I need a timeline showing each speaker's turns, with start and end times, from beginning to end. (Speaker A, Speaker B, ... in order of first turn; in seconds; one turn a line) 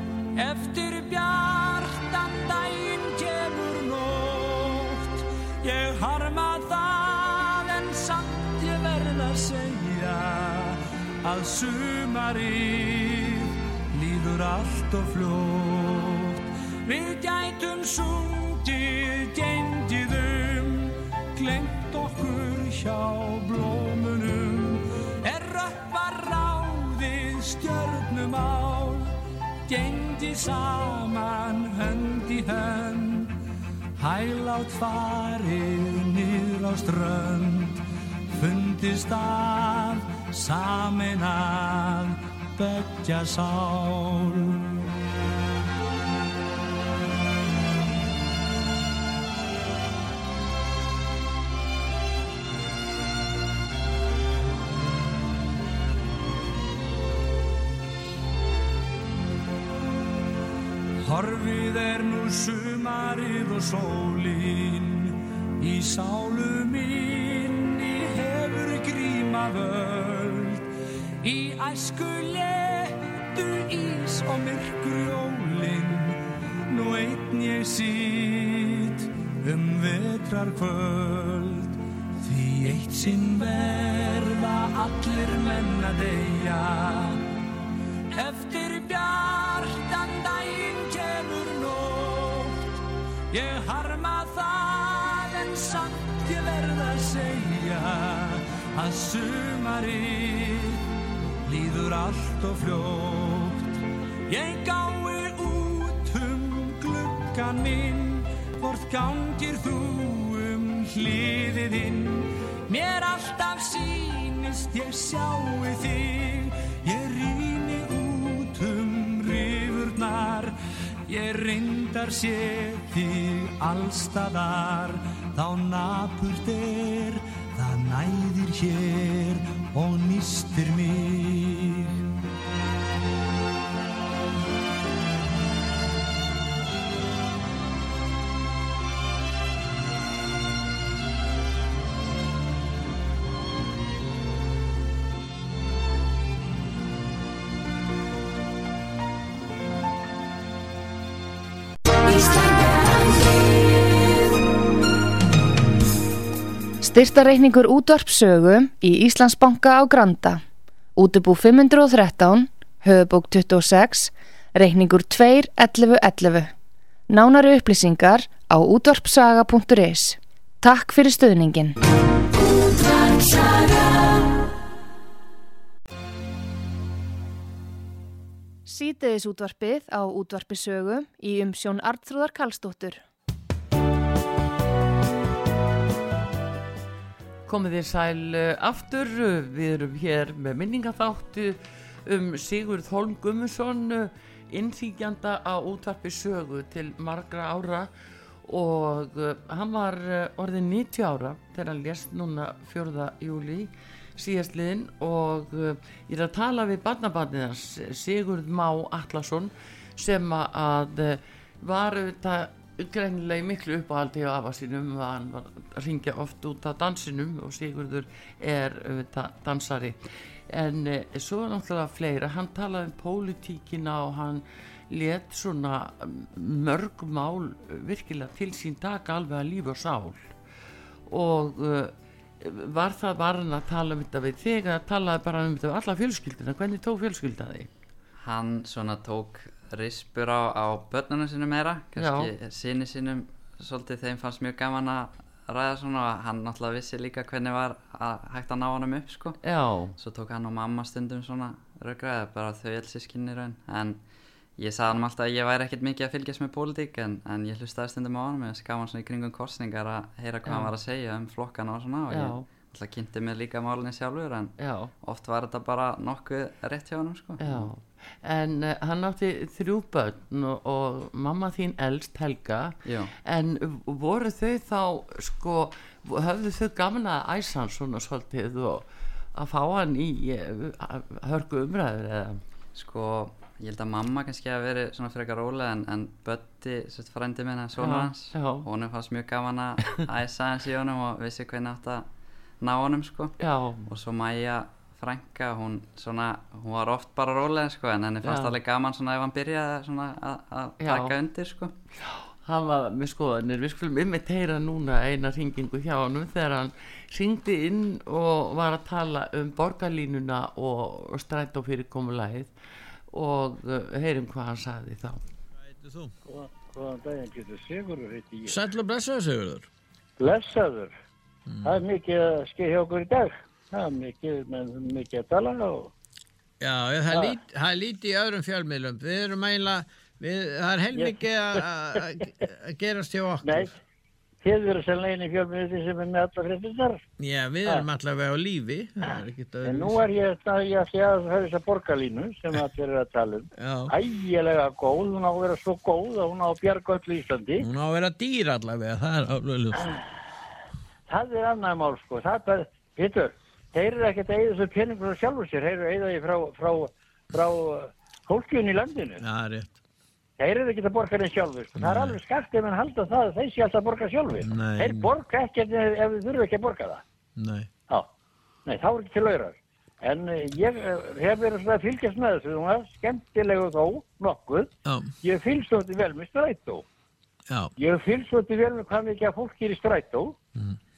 Speaker A: 0.4-29.1
Speaker A: 29.7-33.4
Speaker A: 34.0-44.6
Speaker A: 61.0-70.7
Speaker A: 71.2-87.2
Speaker A: 88.1-92.7
Speaker A: 93.3-100.8
Speaker A: 101.4-120.5
Speaker A: 121.1-132.0
Speaker B: 152.1-153.2
Speaker B: 156.8-160.4
Speaker B: 160.9-166.5
Speaker B: 167.1-171.8
Speaker B: 172.6-174.0
Speaker B: 178.7-183.0
Speaker C: 187.5-197.9
Speaker C: 198.4-220.0
Speaker C: 220.5-230.3
Speaker C: 231.1-237.7
Speaker D: 238.2-249.4
Speaker C: 242.0-242.3
Speaker C: 249.4-249.9
Speaker D: 250.0-254.0
Speaker D: 254.6-267.7
Speaker C: 262.1-262.5
Speaker C: 264.6-264.9
Speaker C: 267.4-282.4
Speaker D: 272.9-273.1
Speaker D: 282.8-292.1
Speaker C: 287.8-288.6
Speaker D: 292.6-301.7
Speaker C: 293.4-293.9
Speaker C: 298.2-298.5
Speaker C: 300.8-301.1
Speaker C: 302.0-312.5
Speaker C: 313.1-315.2
Speaker E: 315.6-316.1
Speaker F: 316.3-318.6
Speaker E: 318.5-319.7
Speaker F: 320.2-320.9
Speaker E: 321.5-321.8
Speaker F: 321.6-325.9
Speaker E: 326.6-333.7
Speaker F: 327.1-327.4
Speaker F: 330.9-332.0
Speaker F: 333.4-333.7
Speaker F: 334.4-337.0
Speaker E: 337.2-340.0
Speaker F: 339.6-347.7
Speaker E: 343.6-343.9
Speaker E: 347.6-349.9
Speaker F: 351.1-359.2
Speaker E: 359.2-359.8
Speaker F: 360.4-367.0
Speaker E: 361.8-362.2
Speaker E: 364.4-365.1
Speaker E: 367.4-367.7
Speaker F: 368.6-374.7
Speaker E: 374.9-375.1
Speaker F: 375.2-376.9
Speaker F: 377.8-380.4